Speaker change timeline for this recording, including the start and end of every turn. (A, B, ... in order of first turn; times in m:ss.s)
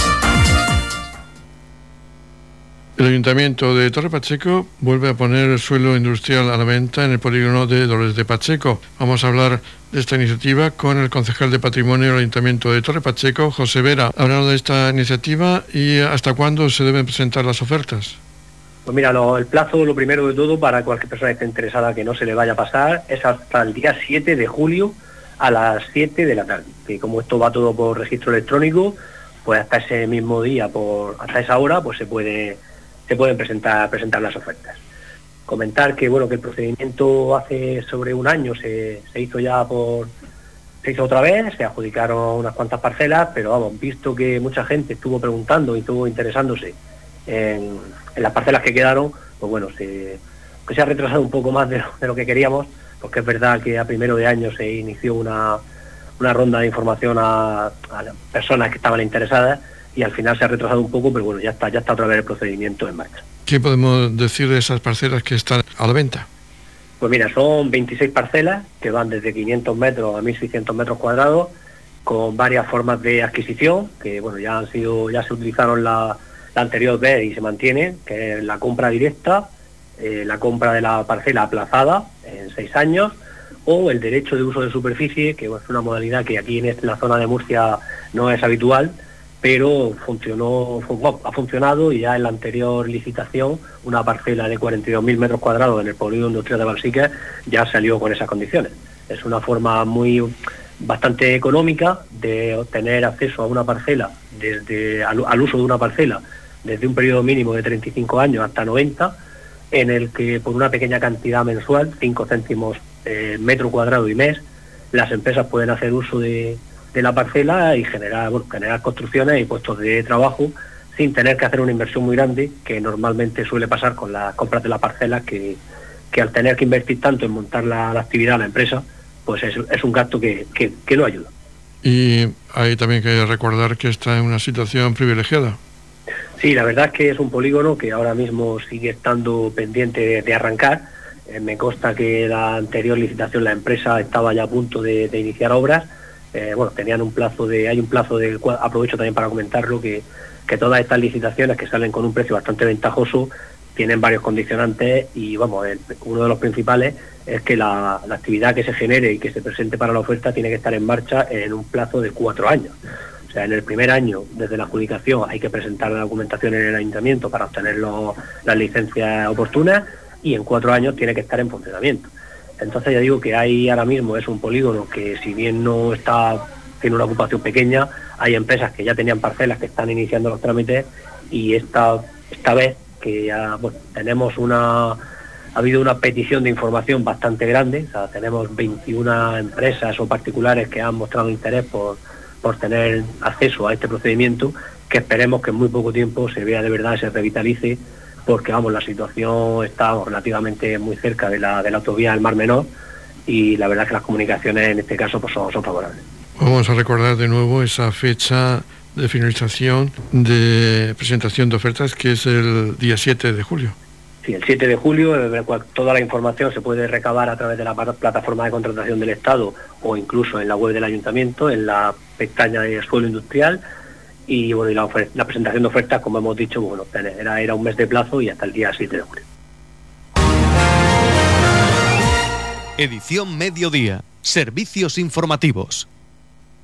0:03.0-0:18.2 A
0:18.9-0:34.8 B
0:35.5-0:40.1 B
0:40.8-0:55.6 B
0:56.2-1:03.2 B
1:03.5-1:06.3 A
1:07.0-1:11.5 B
1:12.0-1:49.2 B
1:49.7-2:05.6 B
2:06.1-2:11.3 B
2:11.8-2:15.6 A
2:16.4-2:42.8 B
2:43.3-3:05.0 B
3:05.6-3:22.7 B
3:23.3-3:26.0 B
3:26.4-3:33.8 A
3:34.2-3:43.6 B
3:44.3-3:49.2 B
3:52.8-3:55.9 C